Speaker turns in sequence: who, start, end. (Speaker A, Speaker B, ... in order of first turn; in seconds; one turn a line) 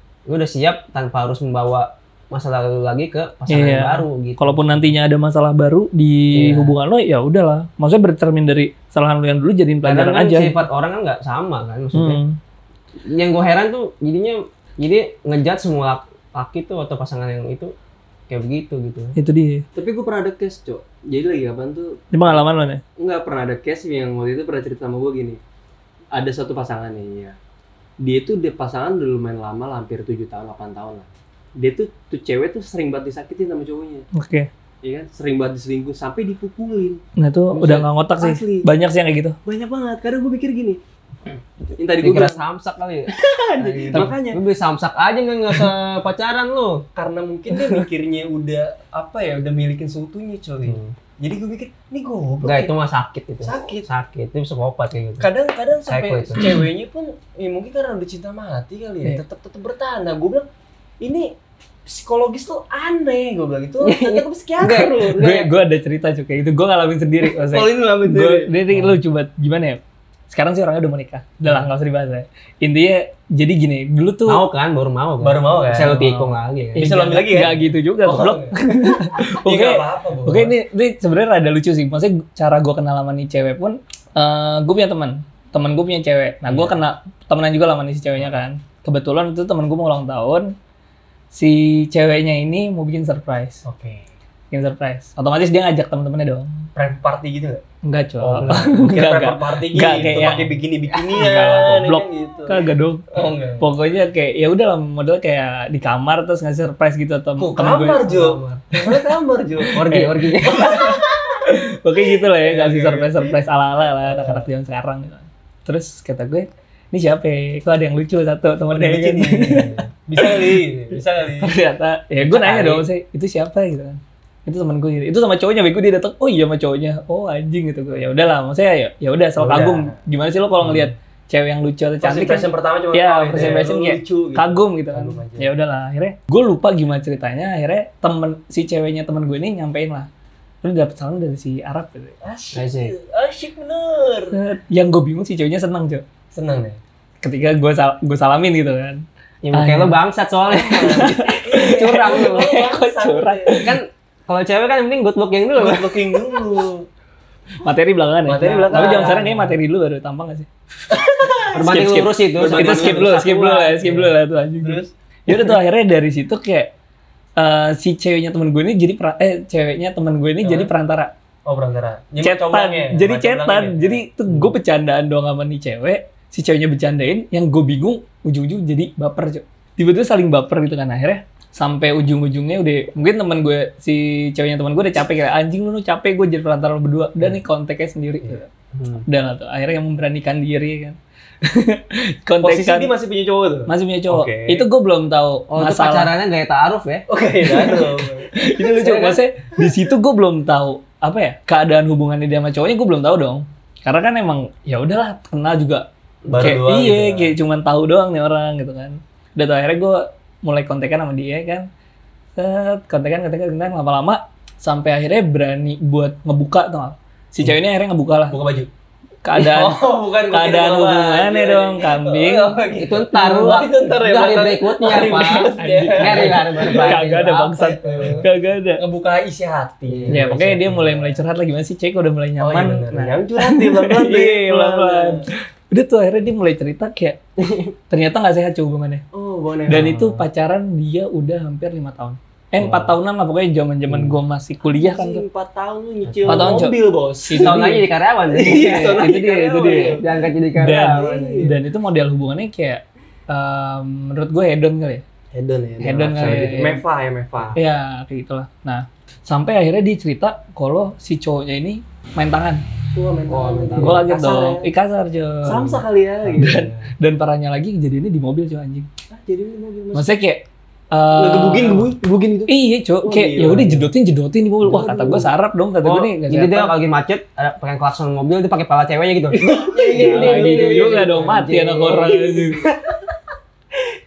Speaker A: 0.3-4.9
Speaker B: 3.5-10.6
Speaker A: 6.3-6.7
Speaker A: 9.8-12.2
Speaker B: 11.9-12.4
Speaker A: 13.0-17.7
Speaker A: 18.3-19.1
Speaker B: 19.1-19.6
Speaker C: 19.8-22.0
Speaker B: 22.1-22.8
Speaker C: 23.0-25.4
Speaker C: 26.1-27.4
Speaker C: 28.0-34.1
Speaker B: 34.1-34.5
Speaker C: 34.8-37.0
Speaker B: 37.2-39.4
Speaker C: 37.5-38.7
Speaker C: 39.4-40.8
Speaker C: 41.8-42.4
Speaker A: 42.0-46.8
Speaker C: 43.1-44.4
Speaker C: 47.0-52.7
Speaker A: 50.6-50.9
Speaker A: 52.4-55.3
Speaker C: 53.4-53.9
Speaker C: 55.2-60.5
Speaker A: 55.9-56.4
Speaker C: 61.0-61.3
Speaker C: 61.9-65.5
Speaker A: 63.8-65.5
Speaker B: 65.1-74.4
Speaker C: 67.2-68.6
Speaker A: 68.7-68.9
Speaker A: 74.2-76.9
Speaker C: 75.2-80.5
Speaker B: 76.8-90.5
Speaker C: 86.5-86.8
Speaker B: 91.3-93.6
Speaker C: 93.6-94.1
Speaker B: 94.5-96.6
Speaker C: 96.7-97.6
Speaker B: 97.8-100.5
Speaker C: 98.2-103.7
Speaker B: 101.0-103.0
Speaker B: 103.6-108.1
Speaker C: 107.4-113.4
Speaker A: 108.0-108.7
Speaker B: 108.8-109.0
Speaker B: 109.6-120.6
Speaker A: 109.8-110.8
Speaker C: 114.0-114.4
Speaker C: 118.7-121.5
Speaker B: 121.4-140.1
Speaker C: 122.2-122.9
Speaker C: 129.4-129.9
Speaker C: 130.6-130.9
Speaker C: 132.0-135.5
Speaker B: 140.6-142.2
Speaker C: 142.2-144.4
Speaker A: 142.5-142.9
Speaker B: 144.3-146.0
Speaker C: 146.3-146.8
Speaker B: 147.2-150.0
Speaker A: 149.4-152.5
Speaker C: 150.5-153.7
Speaker B: 150.8-153.8
Speaker A: 153.6-156.2
Speaker C: 155.5-156.9
Speaker B: 157.6-166.7
Speaker C: 158.2-159.5
Speaker A: 158.7-159.4
Speaker C: 160.9-161.5
Speaker A: 161.5-164.1
Speaker C: 162.3-163.3
Speaker C: 164.6-165.5
Speaker B: 167.4-171.1
Speaker C: 170.4-170.7
Speaker C: 171.4-174.5
Speaker B: 172.2-188.5
Speaker A: 188.7-189.0
Speaker B: 189.1-192.9
Speaker C: 192.4-194.7
Speaker B: 193.7-196.1
Speaker A: 195.5-197.1
Speaker C: 197.1-198.3
Speaker B: 197.6-211.7
Speaker A: 198.6-199.2
Speaker C: 206.3-207.3
Speaker B: 212.4-218.4
Speaker C: 218.3-218.7
Speaker B: 219.2-222.6
Speaker C: 219.3-227.2
Speaker A: 222.8-228.2
Speaker B: 225.6-228.8
Speaker C: 227.8-231.2
Speaker A: 229.9-230.4
Speaker B: 230.1-237.2
Speaker C: 232.4-235.3
Speaker A: 237.4-237.7
Speaker B: 237.9-239.0
Speaker C: 239.1-240.2
Speaker B: 239.7-245.2
Speaker C: 242.6-242.9
Speaker C: 244.6-247.7
Speaker A: 246.1-246.6
Speaker B: 246.2-247.8
Speaker A: 247.4-249.1
Speaker C: 248.3-250.1
Speaker B: 248.6-250.0
Speaker A: 249.7-251.4
Speaker B: 250.6-255.0
Speaker C: 250.6-251.5
Speaker C: 255.3-257.6
Speaker B: 255.8-256.8
Speaker A: 256.1-256.6
Speaker B: 257.6-262.6
Speaker C: 262.9-264.7
Speaker A: 263.3-264.0
Speaker B: 263.8-265.8
Speaker C: 265.4-266.8
Speaker A: 266.2-266.5
Speaker B: 266.4-268.9
Speaker C: 269.1-270.1
Speaker B: 269.9-271.9
Speaker C: 271.1-273.9
Speaker B: 272.5-276.7
Speaker C: 274.6-275.3
Speaker A: 274.7-275.0
Speaker A: 275.8-282.7
Speaker C: 279.5-281.2
Speaker B: 279.6-282.7